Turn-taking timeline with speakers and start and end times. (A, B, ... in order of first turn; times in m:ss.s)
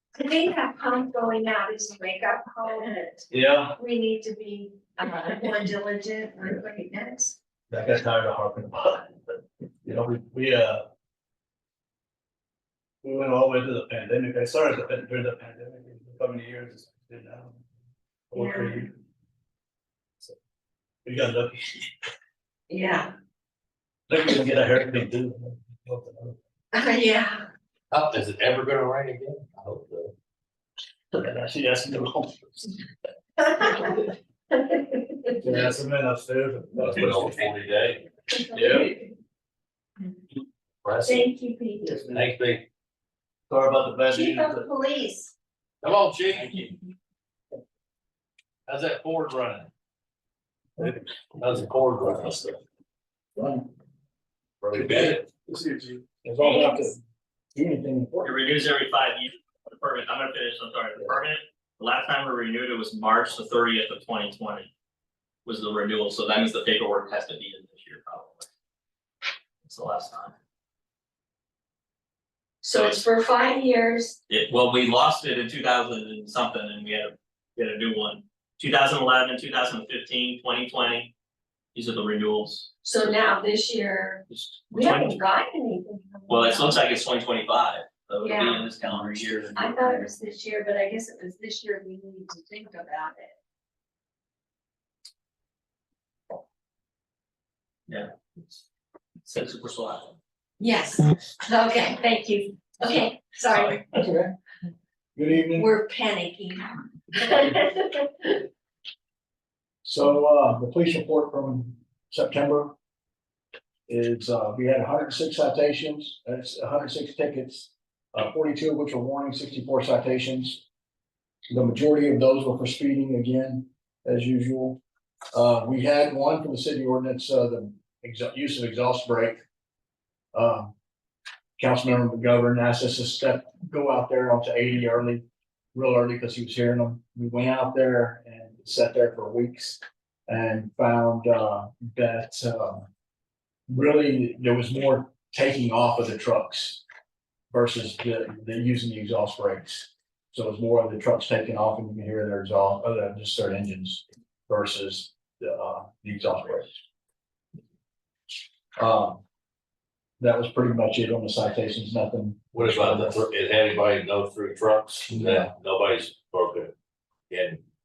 0:00.2-0:07.4 A
0:03.3-0:03.8 B
0:07.7-0:09.1 B
0:09.8-0:10.8 B
0:13.0-0:17.6 B
0:18.3-0:18.9 B
0:18.4-0:18.8 A
0:21.0-0:21.8 B
0:22.7-0:23.1 A
0:24.1-0:26.4 B
0:26.7-0:27.5 A
0:27.9-0:30.1 C
0:31.2-0:32.7 B
0:33.4-0:33.9 A
0:34.6-0:35.2 A
0:35.4-0:37.5 B
0:36.8-0:38.0 C
0:38.4-0:38.9 A
0:38.5-0:39.0 B
0:40.8-0:41.3 C
0:41.0-0:42.1 A
0:42.1-0:42.6 C
0:43.5-0:44.7 B
0:44.1-0:45.3 A
0:45.8-0:46.8 C
0:48.7-0:49.7 C
0:51.4-0:52.6 C
0:54.6-0:56.0 B
0:54.8-0:55.2 C
0:56.2-0:57.0 D
0:56.5-0:56.9 A
0:57.5-0:58.4 D
0:58.2-1:04.7 E
1:05.5-1:08.5 E
1:09.6-1:10.4 E
1:12.6-1:14.2 A
1:12.7-1:13.0 E
1:14.3-1:21.1 E
1:21.7-1:22.7 E
1:22.8-1:26.8 A
1:24.3-1:25.2 E
1:26.3-1:29.7 E
1:28.2-1:28.6 A
1:29.6-1:33.3 A
1:39.2-1:40.2 E
1:40.6-1:43.8 A
1:43.5-1:43.8 E
1:44.0-1:44.3 D
1:45.2-1:45.7 D
1:45.6-1:48.4 A
1:49.8-1:52.7 D
1:53.9-2:00.6 D
2:01.5-2:04.8 D
2:05.3-2:09.4 D
2:10.3-2:10.7 D
2:11.6-2:22.9 D
2:23.7-2:26.8 D
2:27.5-2:36.8 D
2:38.8-2:39.2 D
2:40.2-2:43.2 D
2:42.5-2:46.7 C
2:47.3-2:47.6 C